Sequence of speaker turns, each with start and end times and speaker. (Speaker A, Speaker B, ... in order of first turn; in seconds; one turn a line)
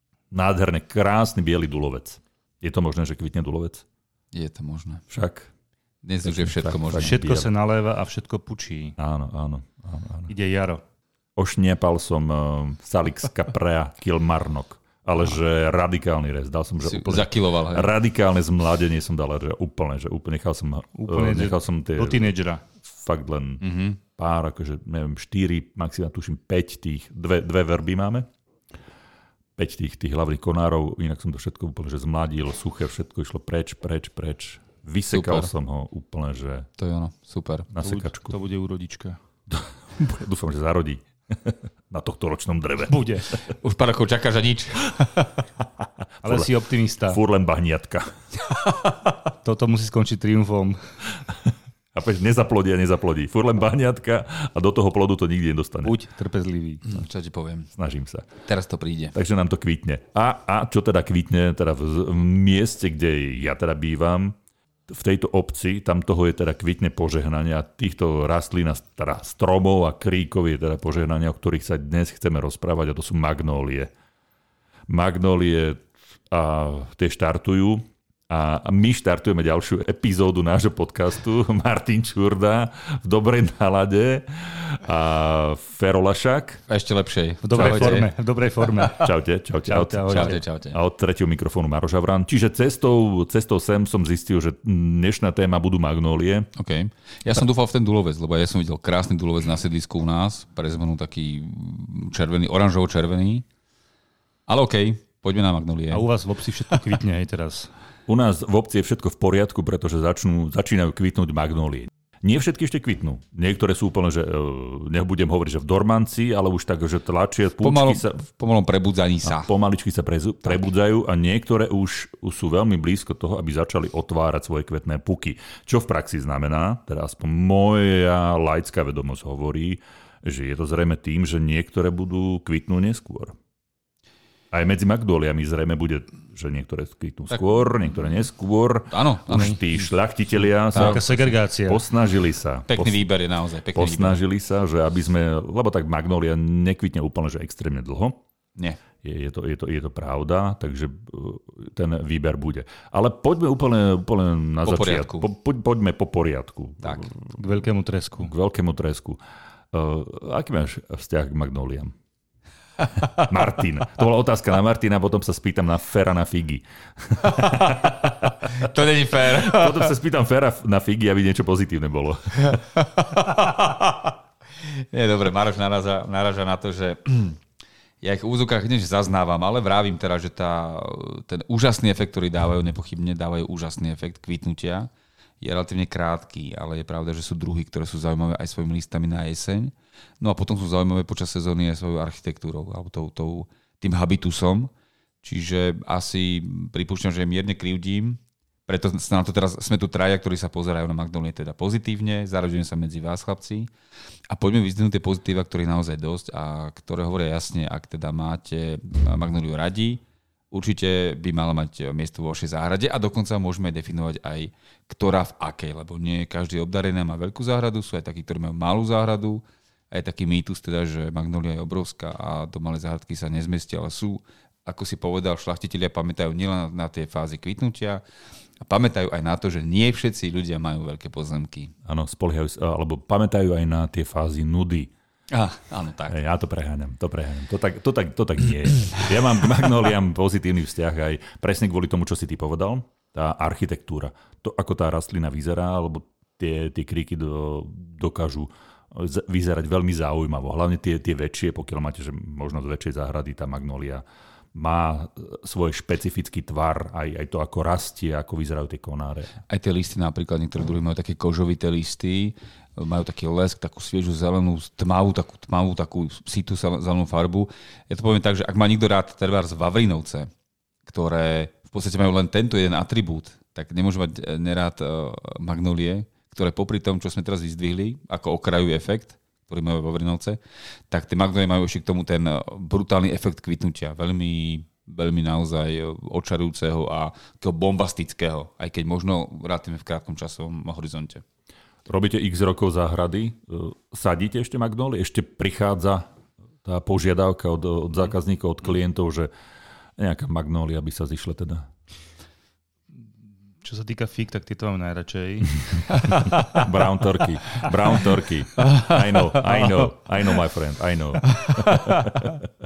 Speaker A: 0.3-3.9
Speaker B: 4.3-5.0
Speaker A: 5.1-5.5
Speaker B: 6.0-7.2
Speaker A: 6.2-7.5
Speaker C: 6.9-9.0
Speaker A: 9.0-10.3
Speaker C: 10.3-10.8
Speaker A: 11.4-28.3
Speaker B: 16.8-17.9
Speaker C: 21.0-22.7
Speaker B: 23.6-24.0
Speaker A: 29.6-36.7
Speaker B: 35.1-35.5
Speaker B: 36.8-37.7
Speaker A: 37.7-38.4
Speaker C: 37.8-39.2
Speaker A: 39.5-43.2
Speaker C: 42.9-43.3
Speaker B: 43.5-45.4
Speaker A: 46.2-46.5
Speaker C: 46.2-47.2
Speaker A: 47.1-48.2
Speaker C: 49.4-50.8
Speaker A: 51.3-55.9
Speaker C: 55.8-56.9
Speaker B: 56.9-57.7
Speaker A: 57.7-58.3
Speaker B: 58.4-59.1
Speaker A: 59.1-64.4
Speaker A: 64.9-73.9
Speaker A: 74.9-86.6
Speaker B: 86.7-88.1
Speaker C: 87.4-90.4
Speaker A: 87.6-88.1
Speaker A: 88.8-96.5
Speaker B: 90.1-90.8
Speaker B: 96.5-103.5
Speaker B: 104.5-106.0
Speaker C: 105.9-107.7
Speaker A: 108.1-118.2
Speaker B: 117.6-119.5
Speaker A: 119.2-133.4
Speaker A: 134.5-143.0
Speaker B: 138.9-139.6
Speaker C: 140.7-141.8
Speaker B: 140.7-141.2
Speaker B: 142.7-144.2
Speaker A: 143.8-148.2
Speaker A: 149.0-157.2
Speaker B: 154.6-155.3
Speaker C: 157.3-158.3
Speaker A: 158.2-159.2
Speaker A: 159.7-161.9
Speaker B: 163.0-163.2
Speaker A: 163.1-172.6
Speaker B: 167.3-167.7
Speaker B: 168.4-169.9
Speaker B: 172.4-177.4
Speaker B: 178.0-184.9
Speaker B: 185.4-194.7
Speaker B: 195.2-203.7
Speaker B: 204.3-228.0
Speaker B: 228.6-231.7
Speaker A: 231.8-234.9
Speaker B: 235.3-236.2
Speaker A: 236.1-254.0
Speaker A: 254.6-259.3
Speaker B: 259.5-270.3
Speaker B: 270.9-280.4
Speaker B: 280.9-291.2
Speaker A: 291.9-296.1
Speaker A: 296.6-299.3
Speaker A: 300.0-301.7
Speaker C: 303.6-306.6
Speaker A: 306.2-312.4
Speaker C: 309.3-309.9
Speaker B: 311.4-312.1